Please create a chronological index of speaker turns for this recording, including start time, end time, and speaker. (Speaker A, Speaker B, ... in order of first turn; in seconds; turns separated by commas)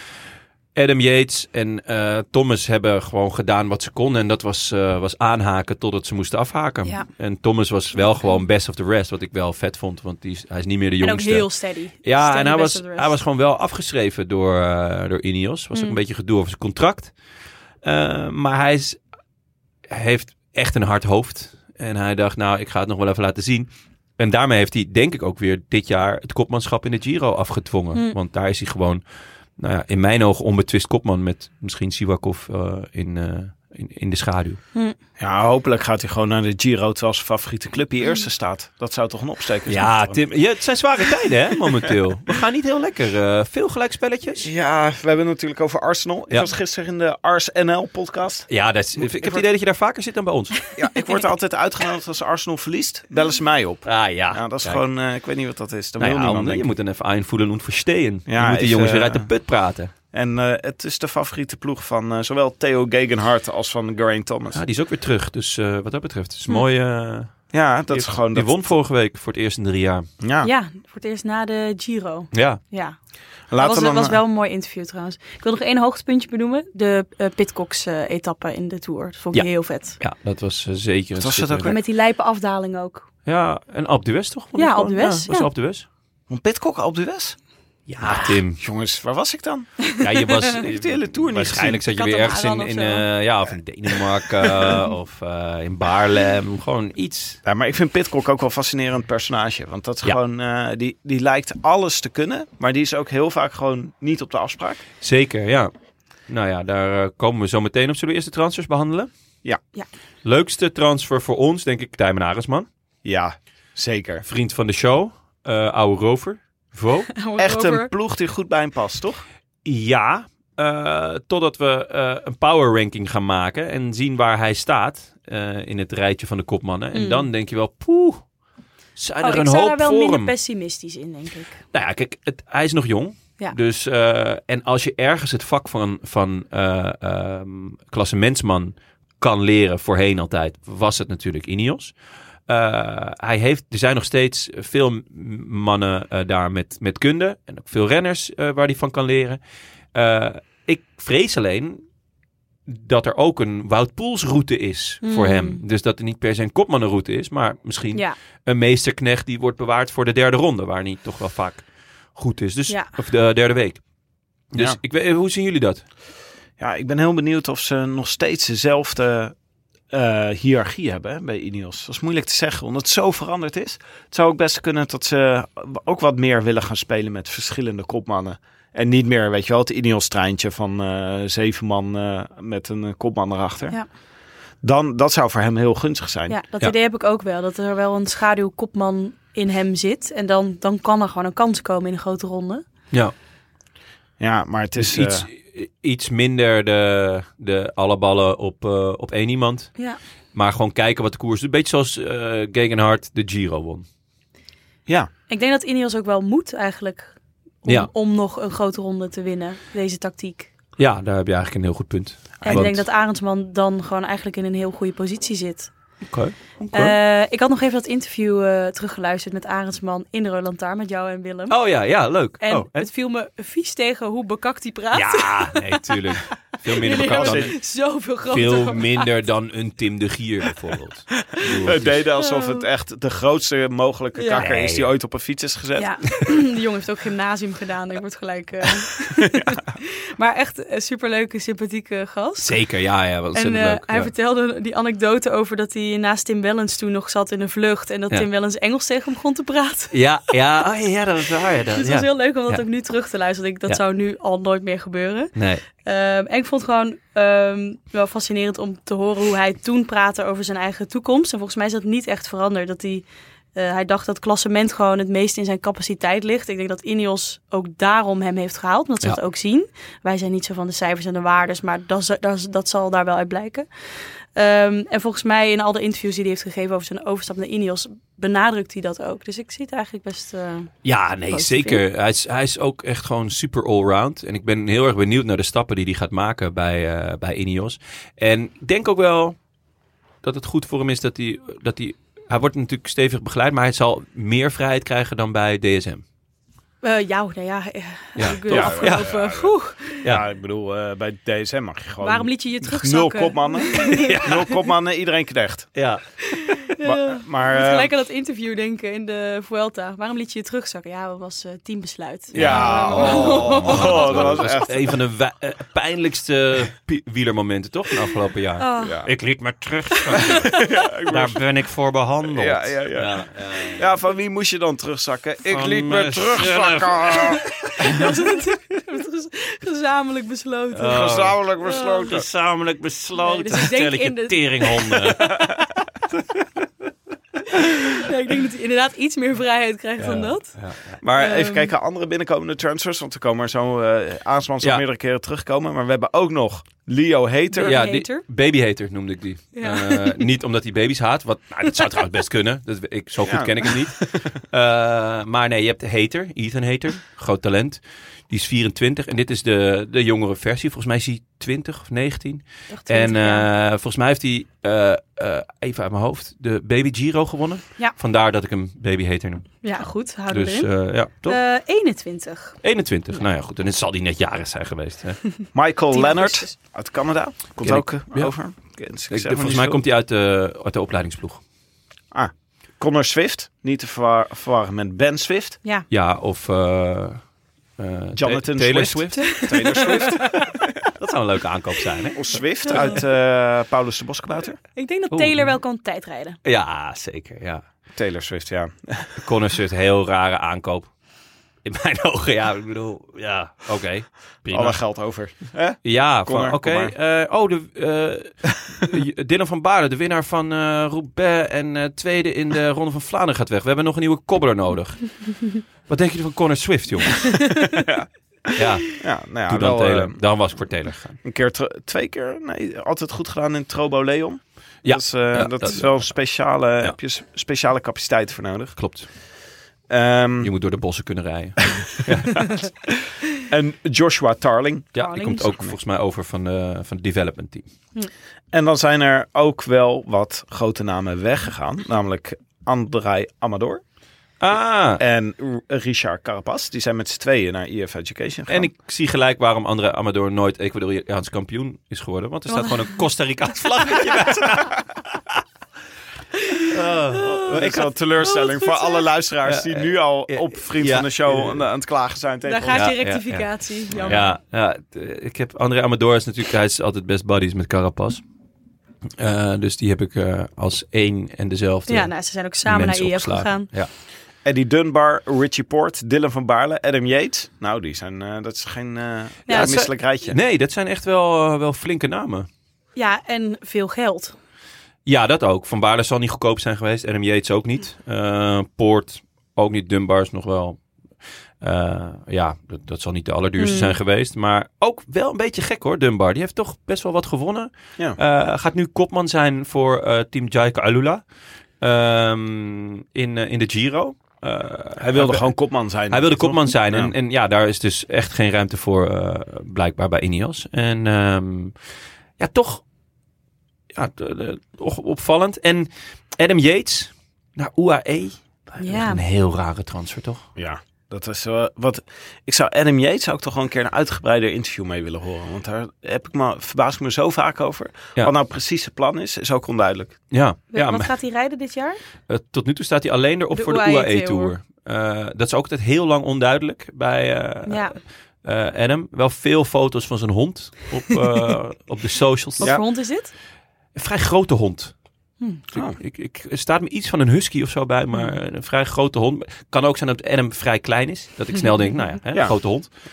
Speaker A: 0.7-11.5, Speaker B: 11.0-13.2, Speaker A: 12.0-17.1, Speaker A: 17.8-19.0, Speaker A: 19.9-29.0, Speaker A: 29.6-34.6, Speaker C: 35.2-40.2, Speaker A: 39.7-44.5, Speaker C: 44.4-49.4, Speaker A: 48.5-50.6, Speaker C: 50.7-56.7, Speaker A: 53.8-54.8, Speaker A: 56.0-59.9, Speaker C: 58.3-59.3, Speaker C: 60.1-64.6, Speaker A: 64.5-70.1, Speaker C: 67.5-68.5, Speaker C: 70.2-70.5, Speaker B: 70.4-73.0, Speaker A: 72.3-72.6, Speaker C: 73.5-74.2, Speaker B: 73.5-80.0, Speaker A: 79.3-81.8, Speaker C: 81.2-81.8, Speaker B: 81.6-83.1, Speaker A: 83.2-85.9, Speaker B: 84.6-85.5, Speaker C: 86.3-87.4, Speaker A: 87.9-88.6, Speaker C: 88.0-89.9, Speaker A: 90.0-97.4, Speaker C: 90.6-91.8, Speaker B: 91.9-93.0, Speaker C: 97.4-104.8, Speaker A: 105.0-105.7, Speaker A: 106.3-109.1, Speaker A: 110.2-112.7, Speaker C: 113.0-114.2, Speaker A: 114.2-117.1, Speaker B: 117.1-117.9, Speaker C: 117.4-119.2, Speaker A: 119.6-128.2, Speaker B: 126.9-127.3, Speaker A: 128.9-130.3, Speaker B: 129.2-131.6, Speaker A: 131.7-141.9, Speaker A: 142.5-149.4, Speaker A: 149.9-151.8, Speaker A: 152.7-163.8, Speaker B: 155.0-155.6, Speaker B: 162.7-162.9, Speaker A: 164.5-165.8, Speaker C: 166.6-169.3, Speaker C: 169.9-183.8, Speaker C: 184.6-186.4, Speaker B: 186.3-192.6, Speaker C: 194.2-195.2, Speaker A: 194.8-199.8, Speaker A: 200.3-203.8, Speaker B: 205.3-210.5, Speaker A: 210.8-212.8, Speaker B: 212.4-215.7, Speaker A: 216.1-216.9, Speaker B: 216.7-221.6, Speaker A: 221.5-222.9, Speaker B: 222.4-229.1, Speaker A: 224.9-227.6, Speaker C: 227.0-227.5, Speaker A: 228.3-232.0, Speaker C: 231.6-236.2, Speaker B: 232.2-232.6, Speaker B: 234.1-234.4, Speaker A: 234.4-234.9, Speaker B: 235.8-242.6, Speaker A: 242.4-244.1, Speaker B: 243.3-250.0, Speaker A: 249.9-252.6, Speaker B: 251.8-280.7, Speaker A: 255.3-255.6, Speaker A: 280.8-289.4, Speaker B: 281.3-281.8, Speaker A: 290.2-296.0, Speaker B: 296.8-300.0, Speaker A: 298.2-299.2, Speaker C: 298.5-305.8, Speaker B: 302.0-304.3, Speaker A: 303.9-304.4, Speaker A: 305.7-306.0, Speaker B: 306.3-314.6, Speaker C: 306.8-307.9, Speaker C: 312.3-315.0, Speaker A: 312.3-323.9, Speaker B: 318.6-319.0, Speaker C: 318.8-319.1, Speaker B: 320.1-320.7, Speaker C: 320.2-321.4, Speaker C: 322.2-327.4, Speaker A: 325.5-327.4, Speaker B: 327.6-331.1, Speaker A: 330.7-331.4, Speaker C: 330.8-332.3, Speaker B: 331.6-332.1, Speaker A: 332.0-335.5, Speaker B: 333.2-335.6, Speaker B: 337.5-340.5, Speaker A: 340.0-341.0, Speaker C: 341.0-347.8, Speaker B: 341.1-341.7, Speaker B: 347.5-348.2, Speaker A: 347.6-369.7, Speaker B: 349.5-350.2, Speaker C: 353.2-354.3, Speaker B: 362.7-363.4, Speaker B: 369.6-370.7, Speaker A: 370.3-371.4, Speaker B: 371.2-372.6, Speaker A: 372.6-375.2, Speaker C: 375.5-379.8, Speaker B: 375.9-376.5, Speaker A: 377.6-378.3, Speaker A: 379.1-381.4, Speaker C: 382.1-385.6, Speaker A: 385.9-387.2, Speaker A: 387.8-389.9, Speaker C: 388.1-390.5, Speaker B: 389.2-390.1, Speaker A: 390.9-392.3, Speaker C: 392.1-394.6, Speaker B: 392.7-392.9, Speaker B: 394.7-396.4, Speaker A: 395.1-395.5, Speaker A: 396.4-397.6, Speaker C: 397.9-399.1, Speaker A: 399.2-400.9, Speaker A: 401.6-404.8, Speaker C: 404.5-406.9, Speaker A: 405.8-417.5, Speaker C: 417.7-418.1, Speaker A: 418.5-421.2, Speaker C: 418.9-420.2, Speaker C: 421.2-428.8, Speaker A: 424.8-426.9, Speaker A: 428.8-429.1, Speaker C: 429.9-430.5, Speaker A: 430.4-432.6, Speaker C: 433.4-434.9, Speaker A: 434.9-437.6, Speaker B: 434.9-435.5, Speaker C: 438.5-443.8, Speaker A: 444.4-445.0, Speaker C: 445.0-448.7, Speaker A: 448.5-455.2, Speaker B: 452.5-452.9, Speaker A: 456.7-457.9, Speaker B: 457.3-459.1, Speaker C: 457.4-462.9, Speaker A: 459.4-461.6, Speaker B: 462.4-464.3, Speaker A: 462.7-468.2, Speaker C: 463.9-464.3, Speaker A: 469.2-473.9, Speaker B: 471.9-473.7, Speaker C: 474.4-480.4, Speaker B: 479.5-479.7, Speaker A: 479.5-482.5, Speaker B: 482.9-484.3, Speaker A: 485.1-490.8, Speaker A: 491.6-501.2, Speaker B: 493.6-493.9, Speaker A: 501.8-505.5, Speaker C: 505.0-507.1, Speaker A: 506.1-511.8, Speaker A: 512.4-512.8, Speaker A: 513.9-520.5, Speaker B: 518.8-519.2, Speaker C: 520.5-530.2, Speaker A: 530.3-531.1, Speaker B: 530.7-532.0, Speaker A: 532.3-542.8, Speaker B: 533.5-534.5, Speaker B: 537.6-538.0, Speaker B: 542.6-543.3, Speaker A: 543.9-544.9, Speaker A: 545.7-552.9, Speaker C: 552.3-552.6